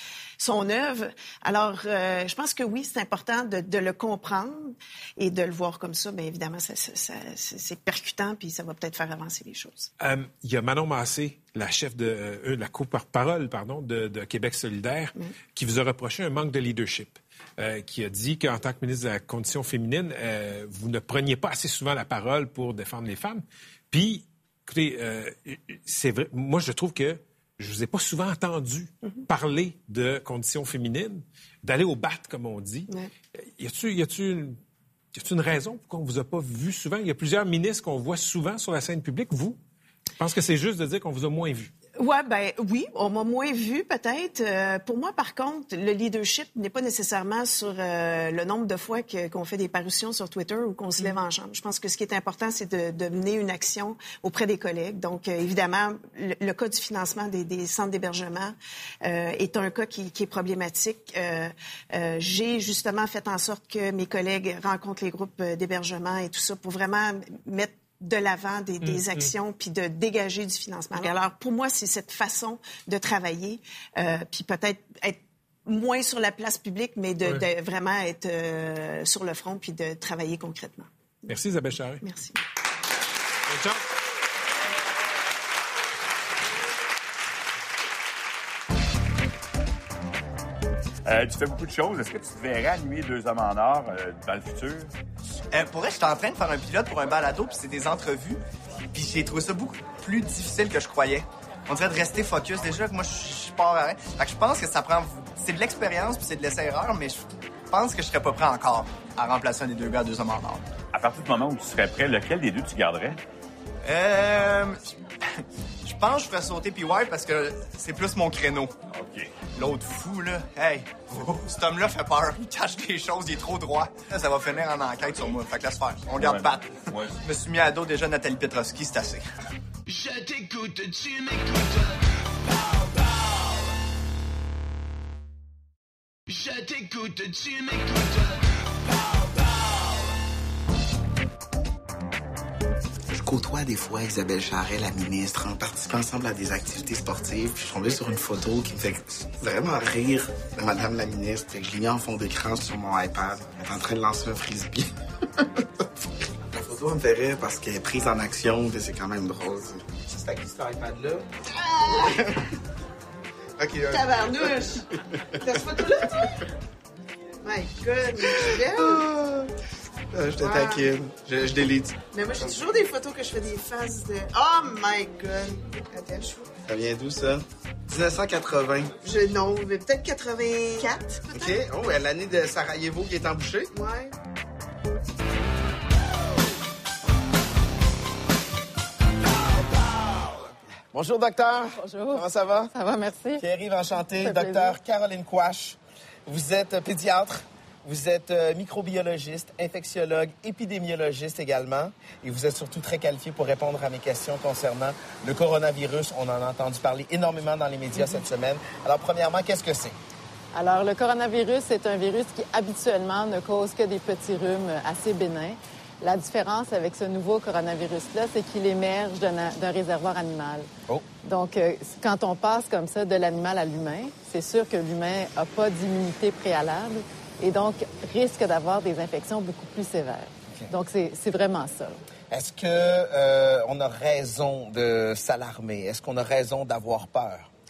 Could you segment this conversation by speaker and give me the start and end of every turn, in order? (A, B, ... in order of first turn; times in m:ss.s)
0:00.4-0:09.9 A
0:10.0-0:32.9 B
0:33.6-0:34.6 B
0:35.1-0:39.6 B
0:40.2-0:41.7 B
0:42.0-1:20.9 A
1:08.8-1:09.3 B
1:21.3-1:22.0 B
1:22.0-1:22.4 A
1:23.5-1:23.8 B
1:31.0-1:34.9 C
1:35.5-1:38.4 D
1:38.9-1:50.7 D
1:50.9-1:53.2 C
1:53.8-1:54.9 D
1:55.8-1:58.7 D
1:58.9-1:59.3 C
1:59.5-2:09.2 D
2:06.2-2:07.2 C
2:09.8-2:13.3 E
2:16.3-2:19.3 E
2:23.1-2:34.9 F
2:36.5-2:42.5 F
2:41.6-2:42.2 A
2:43.6-2:44.6 F
2:43.9-2:44.8 A
2:45.4-2:46.5 A
2:45.4-2:46.1 F
2:47.4-2:49.1 A
2:48.2-2:49.5 F
2:50.1-2:52.6 F
2:50.4-2:50.9 A
2:52.1-2:56.5 A
2:56.6-2:58.9 F
2:59.0-3:01.6 A
3:01.3-3:03.7 F
3:03.7-3:04.1 A
3:10.9-3:12.7 F
3:11.8-3:13.4 G
3:13.4-3:30.0 F
3:14.2-3:14.8 G
3:30.5-3:40.7 G
3:41.2-3:52.0 G
3:52.3-3:57.5 F